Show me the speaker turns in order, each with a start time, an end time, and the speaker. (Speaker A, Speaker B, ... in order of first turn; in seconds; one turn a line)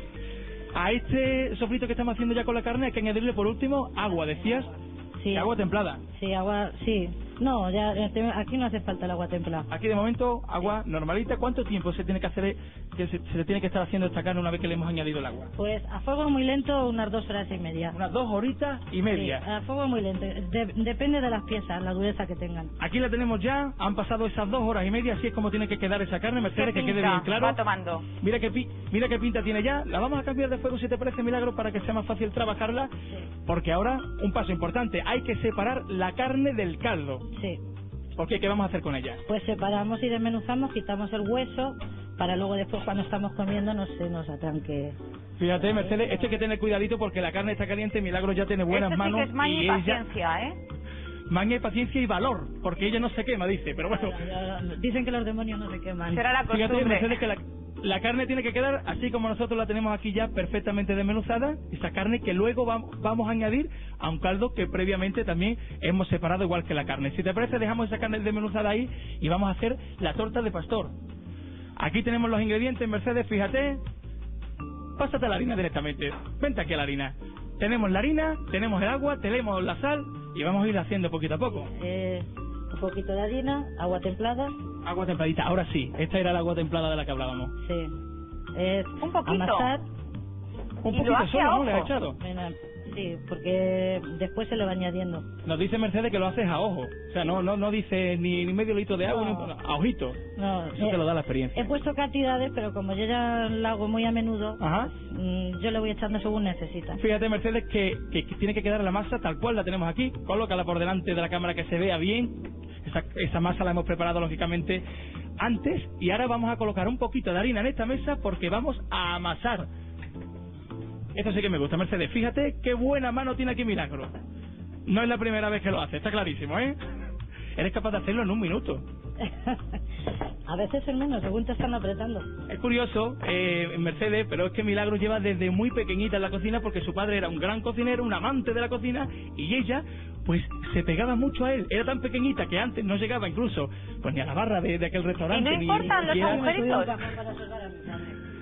Speaker A: 0.7-4.7
Speaker B: 4.5-5.5
Speaker A: 5.3-6.0
Speaker B: 6.1-9.7
Speaker A: 9.7-15.5
Speaker B: 15.6-17.9
Speaker A: 17.9-19.4
Speaker B: 19.1-22.7
Speaker A: 22.8-27.6
Speaker C: 26.5-28.1
Speaker A: 28.2-32.9
Speaker A: 33.5-37.2
Speaker B: 37.3-37.6
Speaker A: 38.2-39.2
Speaker B: 39.3-45.0
Speaker A: 45.4-50.0
Speaker B: 45.5-46.4
Speaker C: 48.7-50.6
Speaker A: 51.3-54.2
Speaker B: 53.9-56.3
Speaker C: 56.1-57.2
Speaker A: 56.5-70.9
Speaker A: 71.8-73.8
Speaker A: 75.0-81.7
Speaker B: 81.5-84.5
Speaker A: 84.8-87.5
Speaker B: 87.6-87.9
Speaker B: 88.5-89.8
Speaker C: 89.0-89.7
Speaker A: 90.8-92.2
Speaker C: 90.9-91.9
Speaker B: 92.2-95.2
Speaker A: 95.4-100.2
Speaker B: 99.0-99.5
Speaker B: 100.3-107.0
Speaker A: 100.7-101.7
Speaker A: 104.6-104.9
Speaker A: 106.9-114.8
Speaker A: 115.4-119.7
Speaker A: 121.1-124.1
Speaker A: 124.8-126.8
Speaker A: 127.5-128.8
Speaker B: 129.2-129.8
Speaker B: 130.5-132.3
Speaker A: 132.5-146.6
Speaker C: 145.3-146.9
Speaker B: 145.7-148.2